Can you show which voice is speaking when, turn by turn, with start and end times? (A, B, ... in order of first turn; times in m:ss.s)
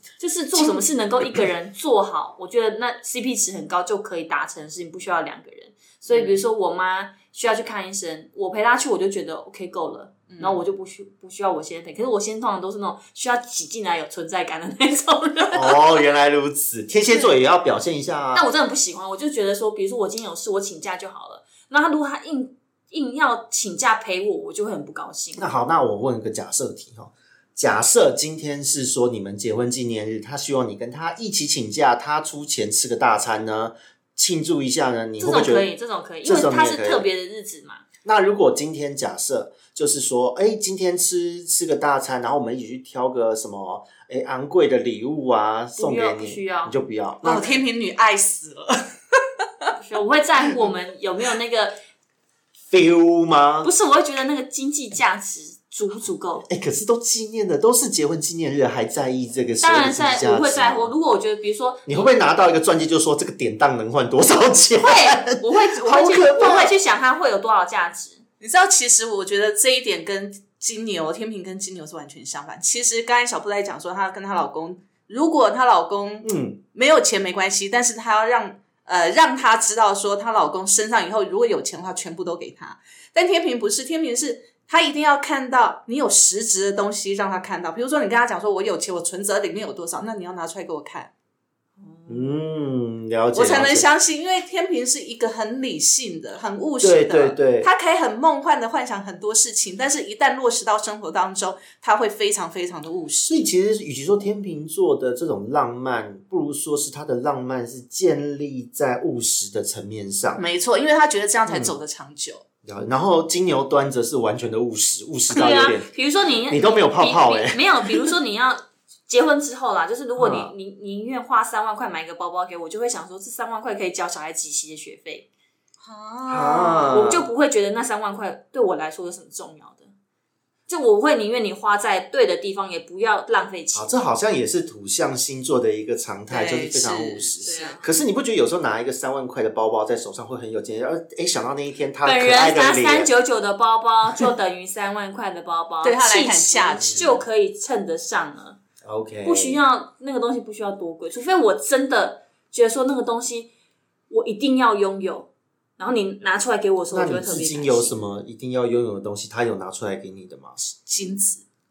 0:00.2-0:15.8 A
0:06.1-0:06.4 B
0:10.3-0:10.6 B
0:15.5-0:18.5 C
0:17.1-0:17.3 A
0:18.3-0:25.4 A
0:25.4-0:35.7 C
0:35.2-0:37.8 A
0:36.2-0:37.1 C
0:38.0-0:47.5 C
0:45.8-0:46.8 A
0:47.2-0:49.7 B
0:49.8-0:51.8 A
0:52.7-0:53.7 C
0:53.6-0:56.5 A
0:56.5-1:00.9 C
0:59.6-1:02.1 A
1:01.9-1:06.8 C
1:04.8-1:08.2 A
1:08.4-1:31.1 B
1:16.2-1:16.6 C
1:31.8-1:32.4 A
1:32.1-1:33.9 C
1:33.3-1:43.4 B
1:36.8-1:37.7 C
1:43.3-1:50.4 C
1:50.4-1:52.4 B
1:51.5-1:51.7 C
1:52.6-1:55.9 C
1:55.3-2:05.3 A
1:56.5-1:58.1 C
2:00.2-2:00.5 C
2:05.8-2:07.0 B
2:06.3-2:07.3 C
2:06.8-2:09.9 A
2:10.7-2:13.9 A
2:13.7-2:23.1 C
2:16.3-2:17.8 B
2:17.4-2:17.9 A
2:22.0-2:28.6 A
2:25.8-2:27.2 B
2:26.8-2:27.1 C
2:28.8-2:29.6 C
2:29.2-2:33.5 A
2:34.1-2:35.3 A
2:35.8-2:38.0 A
2:36.9-2:40.6 C
2:40.6-2:41.4 B